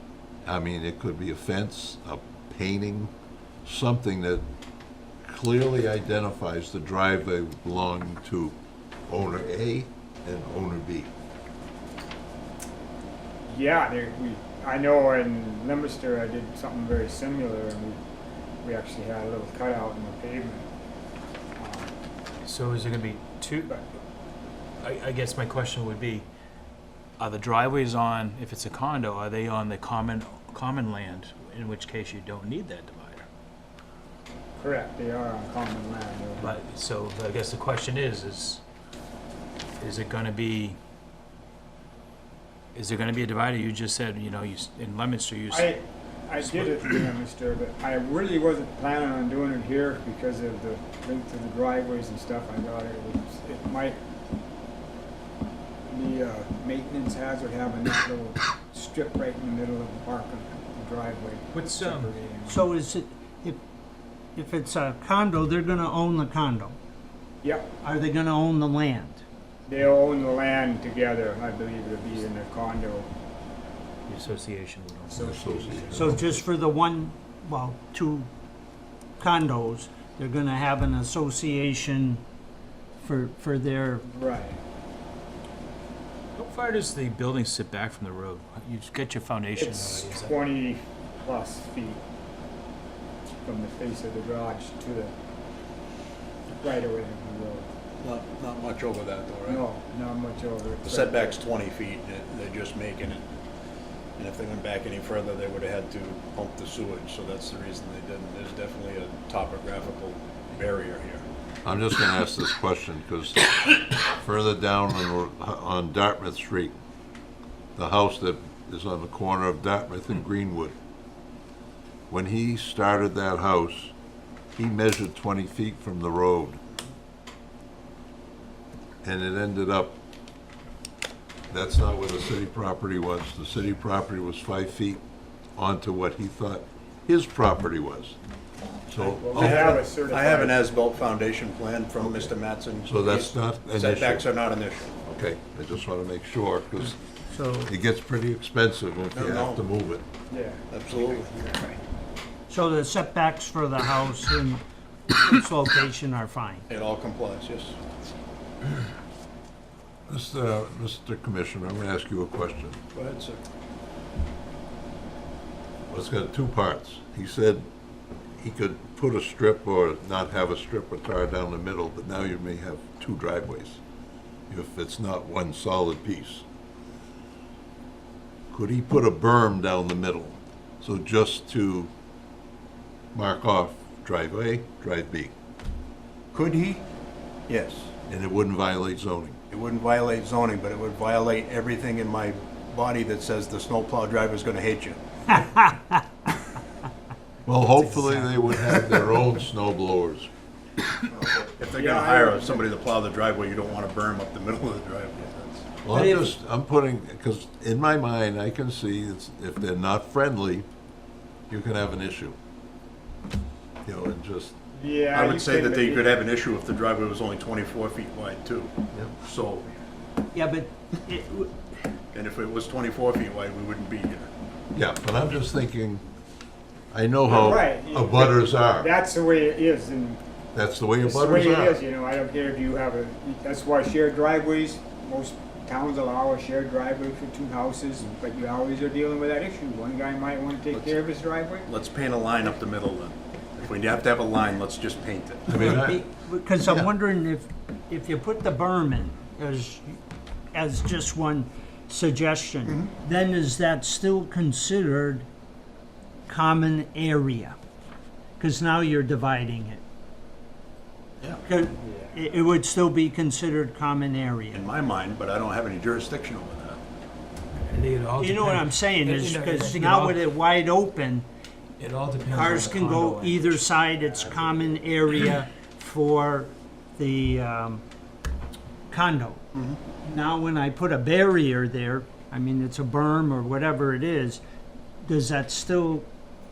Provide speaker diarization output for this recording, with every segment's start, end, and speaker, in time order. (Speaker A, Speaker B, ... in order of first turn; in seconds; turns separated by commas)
Speaker A: 0.5-3.1, Speaker A: 3.6-4.5, Speaker A: 5.3-8.6, Speaker A: 9.1-11.1, Speaker B: 13.5-18.0, Speaker B: 18.6-20.7, Speaker B: 21.6-21.9, Speaker C: 22.4-23.7, Speaker C: 24.8-26.3, Speaker C: 27.2-33.3, Speaker B: 34.6-36.5, Speaker C: 36.4-38.6, Speaker C: 39.8-40.8, Speaker C: 42.8-45.8, Speaker B: 45.5-54.0, Speaker C: 46.4-47.0, Speaker B: 55.9-62.7, Speaker C: 61.5-62.3, Speaker D: 62.5-63.6, Speaker D: 64.4-66.8, Speaker B: 67.4-67.7, Speaker D: 67.8-69.2, Speaker B: 69.7-73.1, Speaker C: 74.1-75.5, Speaker B: 75.1-76.5, Speaker A: 75.2-76.2, Speaker D: 75.9-78.3, Speaker D: 79.2-82.2, Speaker D: 83.0-84.1, Speaker B: 84.1-84.6, Speaker C: 86.4-90.4, Speaker B: 89.6-92.0, Speaker B: 93.5-95.1, Speaker B: 96.6-97.7, Speaker E: 98.0-99.6, Speaker B: 99.5-101.4, Speaker E: 100.8-103.2, Speaker E: 104.2-111.2, Speaker A: 111.6-116.8, Speaker A: 117.8-120.8, Speaker A: 122.1-123.9, Speaker A: 124.6-126.6, Speaker A: 129.0-130.0, Speaker A: 131.5-135.0, Speaker A: 135.6-138.2, Speaker A: 138.9-139.8, Speaker B: 139.0-140.6, Speaker E: 139.4-144.9, Speaker A: 142.0-142.3, Speaker A: 142.8-144.3, Speaker A: 145.0-147.0, Speaker D: 147.3-147.7, Speaker A: 147.6-150.1, Speaker E: 149.1-149.6, Speaker B: 150.3-151.8, Speaker E: 150.7-151.3, Speaker D: 152.5-156.7, Speaker E: 156.7-157.8, Speaker A: 160.1-162.8, Speaker E: 162.9-163.4, Speaker A: 165.9-167.7, Speaker A: 168.4-173.8, Speaker A: 174.5-176.4, Speaker A: 178.5-181.9, Speaker A: 183.1-185.3, Speaker E: 186.3-186.8, Speaker E: 187.5-187.9, Speaker A: 188.1-189.4, Speaker E: 189.5-195.0, Speaker D: 195.4-196.0, Speaker A: 197.4-200.3, Speaker E: 201.1-205.7, Speaker B: 201.7-202.7, Speaker A: 205.8-210.7, Speaker D: 205.9-206.3, Speaker A: 211.5-212.4, Speaker A: 213.8-214.6, Speaker B: 214.7-216.2, Speaker E: 215.1-219.7, Speaker D: 220.3-221.6, Speaker E: 222.1-224.3, Speaker A: 224.7-226.1, Speaker A: 226.9-228.9, Speaker B: 227.3-230.2, Speaker A: 230.5-231.8, Speaker B: 231.0-241.7, Speaker E: 240.7-241.0, Speaker E: 241.7-245.8, Speaker A: 245.5-246.1, Speaker D: 245.5-250.0, Speaker A: 246.6-246.9, Speaker D: 250.5-255.3, Speaker D: 256.3-257.6, Speaker D: 258.4-259.8, Speaker D: 261.4-264.6, Speaker B: 261.8-262.3, Speaker E: 264.5-266.8, Speaker C: 267.5-270.3, Speaker D: 268.2-271.3, Speaker C: 271.8-274.6, Speaker D: 272.2-277.8, Speaker D: 278.9-279.4, Speaker E: 279.5-279.8, Speaker D: 280.0-284.4, Speaker D: 285.1-286.1